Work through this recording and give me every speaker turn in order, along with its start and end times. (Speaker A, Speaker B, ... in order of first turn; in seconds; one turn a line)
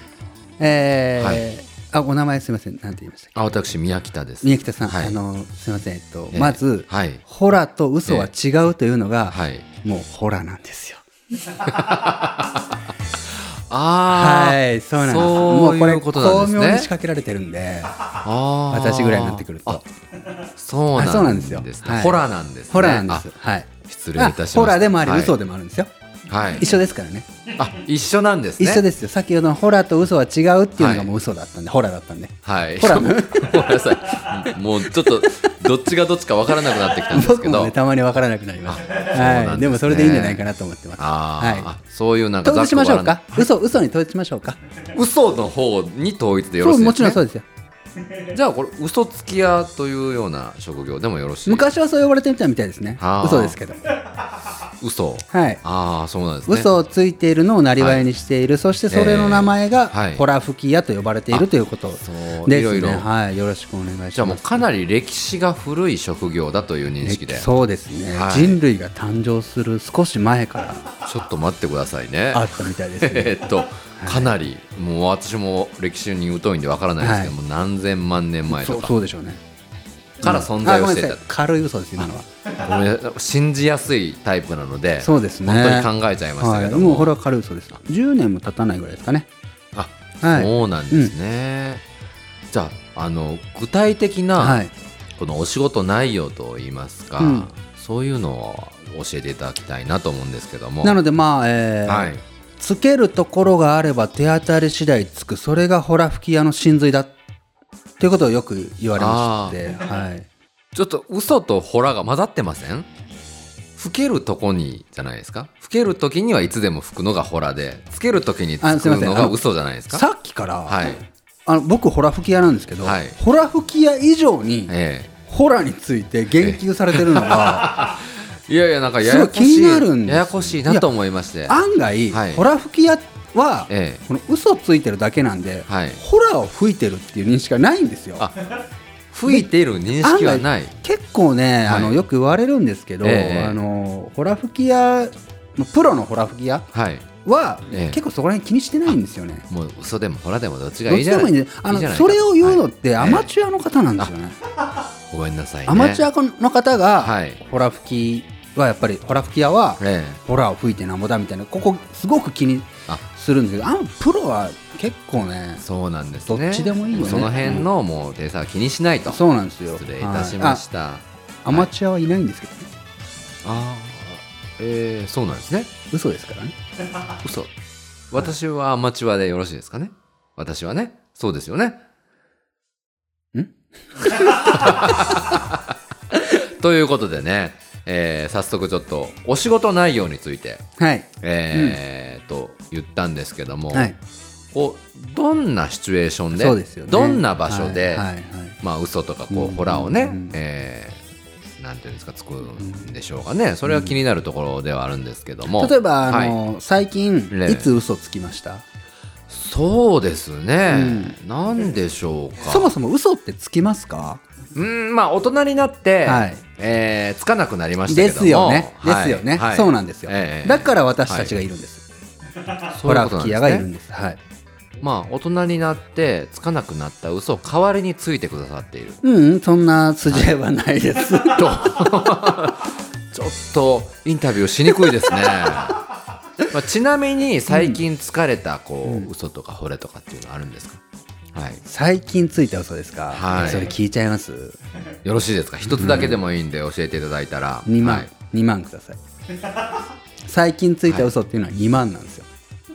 Speaker A: 0.6-3.3
Speaker B: 1.2-1.4
Speaker B: 3.3-5.2
Speaker A: 4.4-11.0
Speaker B: 6.3-7.2
Speaker B: 8.1-8.3
Speaker B: 9.3-9.7
Speaker B: 11.6-12.6
Speaker B: 13.3-16.9
Speaker A: 14.1-18.0
Speaker B: 18.2-19.8
Speaker A: 18.7-19.8
Speaker B: 20.6-23.3
Speaker A: 20.9-25.9
Speaker B: 23.9-25.3
Speaker B: 26.3-26.7
Speaker A: 26.6-27.3
Speaker B: 27.5-28.8
Speaker A: 28.6-35.5
Speaker B: 30.8-31.1
Speaker B: 32.4-37.8
Speaker A: 36.6-41.7
Speaker B: 38.6-40.5
Speaker B: 41.0-43.5
Speaker A: 42.4-44.6
Speaker B: 44.9-47.2
Speaker A: 46.6-47.5
Speaker B: 48.3-51.7
Speaker A: 51.5-53.8
Speaker B: 53.0-53.6
Speaker B: 54.8-56.7
Speaker A: 55.3-55.6
Speaker A: 56.5-64.6
Speaker B: 57.8-58.1
Speaker B: 58.9-60.2
Speaker B: 61.3-63.1
Speaker B: 64.1-67.5
Speaker A: 67.0-70.9
Speaker B: 68.1-68.6
Speaker B: 71.0-78.9
Speaker A: 72.3-73.4
Speaker A: 73.9-74.3
Speaker A: 77.0-77.3
Speaker A: 78.5-79.4
Speaker A: 80.2-82.3
Speaker B: 80.2-81.3
Speaker B: 82.5-87.2
Speaker A: 85.0-89.3
Speaker B: 89.7-91.8
Speaker A: 90.2-91.1
Speaker B: 92.5-101.0
Speaker A: 94.4-94.7
Speaker A: 97.2-97.5
Speaker A: 100.8-107.1
Speaker B: 101.8-102.2
Speaker A: 108.0-110.3
Speaker B: 108.9-109.6
Speaker B: 110.7-112.9
Speaker B: 113.8-120.0
Speaker A: 118.6-119.4
Speaker A: 119.9-124.7
Speaker B: 120.7-121.0
Speaker B: 122.8-123.2
Speaker B: 124.7-125.1
Speaker A: 125.2-127.8
Speaker B: 126.4-131.6
Speaker A: 129.0-130.9
Speaker A: 131.4-138.3
Speaker B: 132.1-132.4
Speaker B: 133.7-134.0
Speaker B: 135.7-136.0
Speaker B: 139.1-140.7
Speaker A: 140.0-146.7
Speaker B: 141.6-142.0
Speaker B: 143.0-143.6
Speaker B: 146.7-147.1
Speaker A: 147.2-149.5
Speaker B: 147.7-148.0
Speaker B: 148.8-153.3
Speaker A: 150.9-154.4
Speaker B: 155.1-156.1
Speaker A: 155.7-165.6
Speaker B: 157.0-157.4
Speaker B: 159.8-160.2
Speaker B: 165.6-171.7
Speaker A: 166.2-167.7
Speaker A: 169.1-170.6
Speaker A: 171.4-172.7
Speaker B: 173.4-175.7
Speaker A: 175.9-176.5
Speaker B: 177.2-177.5
Speaker B: 178.1-181.8
Speaker A: 183.3-184.8
Speaker B: 184.4-185.6
Speaker B: 186.2-190.7
Speaker A: 190.8-191.8
Speaker B: 191.2-193.9
Speaker A: 193.7-194.0
Speaker B: 194.5-198.1
Speaker A: 196.3-198.6
Speaker B: 198.6-201.0
Speaker A: 199.3-200.3
Speaker B: 201.6-206.4
Speaker A: 202.6-202.9
Speaker A: 203.7-203.9
Speaker A: 205.5-208.6
Speaker B: 207.3-207.7
Speaker B: 209.3-212.7
Speaker A: 210.7-211.2
Speaker A: 212.5-214.2
Speaker B: 214.5-221.3
Speaker A: 216.0-216.4
Speaker A: 217.9-221.8
Speaker B: 222.6-223.7
Speaker A: 222.8-224.2
Speaker B: 224.8-229.0
Speaker A: 229.0-231.6
Speaker B: 230.1-230.3
Speaker B: 231.3-235.8
Speaker B: 236.5-240.8
Speaker A: 237.5-237.8
Speaker A: 238.8-239.1
Speaker B: 241.3-241.6
Speaker A: 241.6-244.6
Speaker B: 243.1-243.8
Speaker B: 245.0-248.1
Speaker A: 245.7-246.2
Speaker A: 247.6-249.0
Speaker A: 250.2-252.3
Speaker B: 250.9-251.1